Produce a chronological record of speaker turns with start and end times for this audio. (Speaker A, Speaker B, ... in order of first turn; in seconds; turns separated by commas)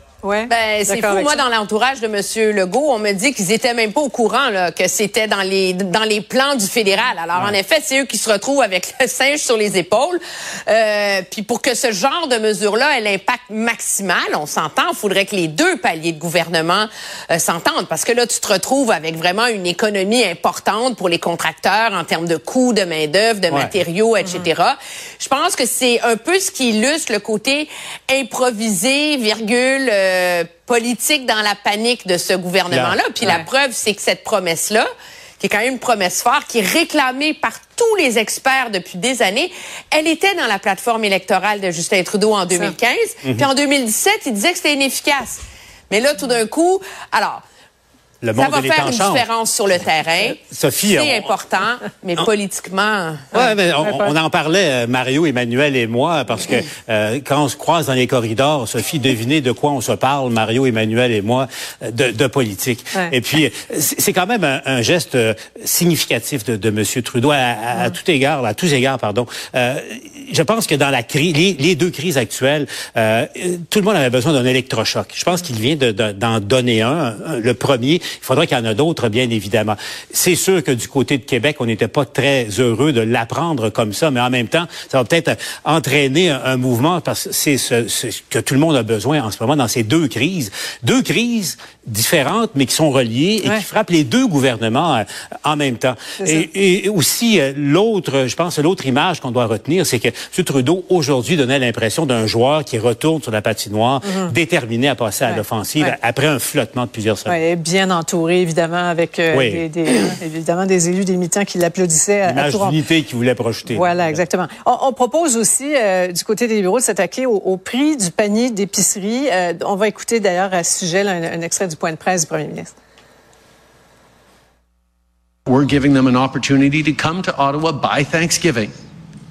Speaker A: 0.2-1.4, Speaker B: 0.5-34.9, Speaker C: 23.5-23.8, Speaker A: 24.2-24.5, Speaker C: 32.7-33.0, Speaker B: 35.4-47.4, Speaker C: 48.2-49.3, Speaker B: 48.3-53.4, Speaker C: 50.4-51.3, Speaker A: 53.3-54.1, Speaker C: 53.4-107.3, Speaker A: 96.2-96.5, Speaker A: 104.0-104.3, Speaker A: 105.2-106.0, Speaker A: 107.2-112.8, Speaker C: 109.3-110.0, Speaker C: 112.2-114.2, Speaker A: 113.7-122.7, Speaker D: 125.5-128.7